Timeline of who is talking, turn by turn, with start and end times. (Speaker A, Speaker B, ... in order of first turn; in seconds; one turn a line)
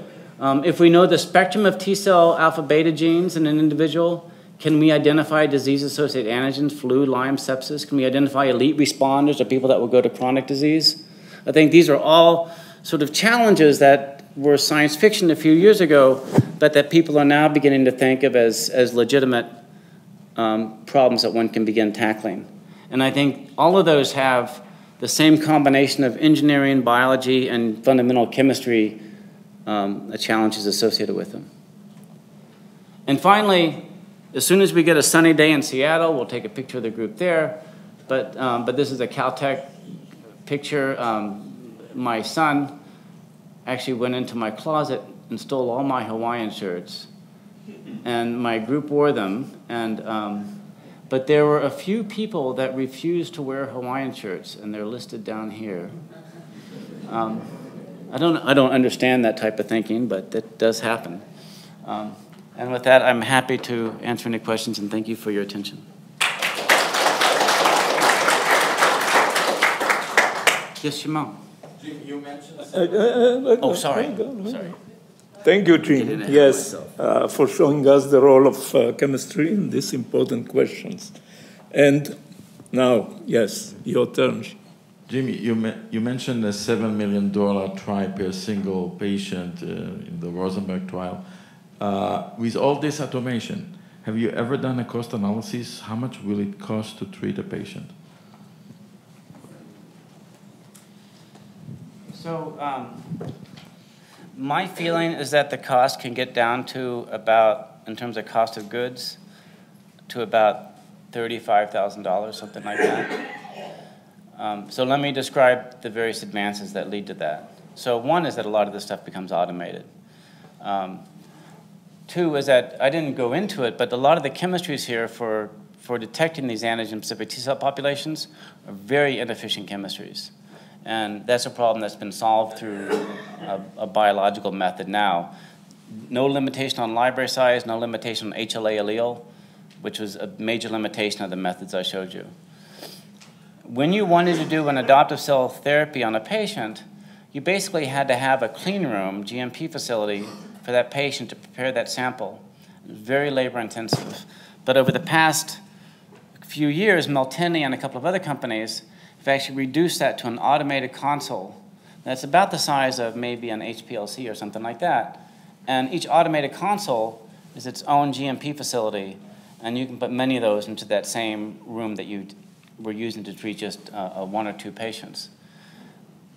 Speaker A: 0.4-19.5
Speaker A: 20.4-29.0
Speaker A: 29.6-31.5
Speaker A: 33.1-39.7
Speaker A: 40.5-42.7
Speaker A: 43.6-47.1
Speaker A: 48.0-55.9
Speaker A: 57.1-57.5
Speaker A: 58.1-61.2
Speaker A: 61.8-65.8
Speaker A: 70.8-71.4
Speaker B: 71.8-72.7
Speaker C: 72.7-74.7
Speaker A: 73.6-74.8
Speaker C: 75.4-81.2
Speaker A: 75.9-76.9
Speaker C: 81.7-82.1
Speaker C: 82.7-84.5
Speaker B: 85.1-91.2
Speaker B: 91.8-97.9
Speaker A: 102.1-103.1
Speaker A: 104.3-109.2
Speaker A: 110.1-113.2
Speaker A: 114.3-119.9
Speaker A: 120.6-121.0
Speaker A: 122.1-130.3
Speaker A: 130.8-135.3
Speaker A: 135.9-139.2
Speaker A: 139.8-142.3
Speaker A: 143.7-155.6
Speaker A: 156.4-175.3